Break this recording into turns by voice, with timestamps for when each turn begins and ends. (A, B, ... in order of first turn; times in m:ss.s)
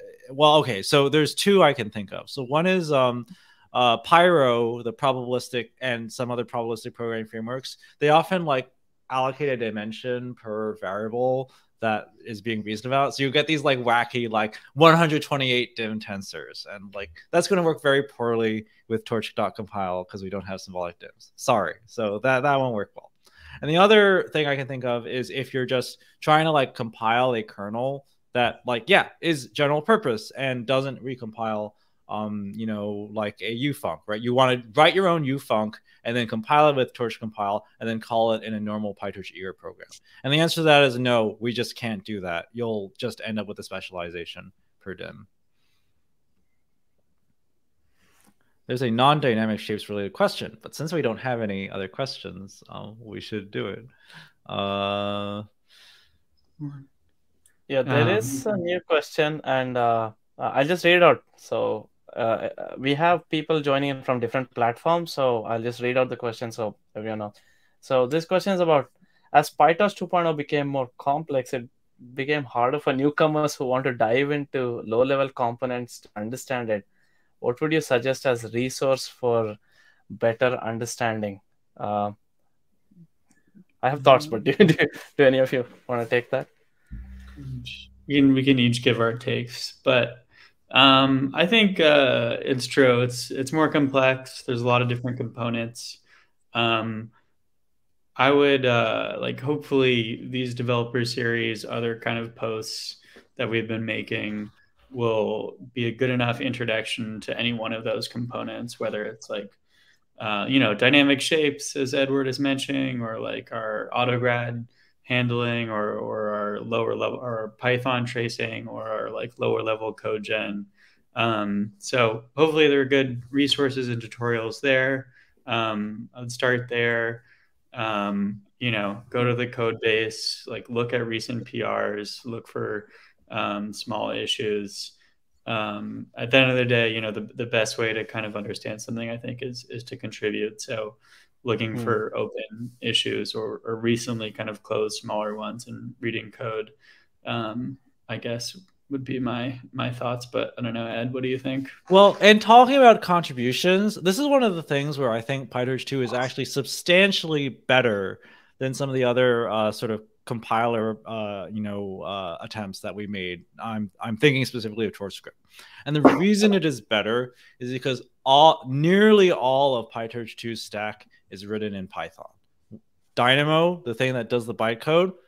0:00.3-0:23.1 A
0:23.6-0:45.3 A
0:48.7-0:53.9 A
0:54.5-0:55.4 A
0:56.6-0:56.9 B
0:57.7-1:16.8 C
0:57.8-0:58.4 B
1:17.4-1:19.6 C
1:20.1-1:22.1 C
1:23.8-1:26.5 C
1:24.0-1:24.3 B
1:27.4-1:36.0 B
1:36.5-1:37.1 B
1:38.2-1:49.6 B
1:50.2-2:14.9 B
2:15.4-2:26.7 B
2:27.2-2:31.7 B
2:31.9-2:52.4 A
2:53.2-2:55.1 A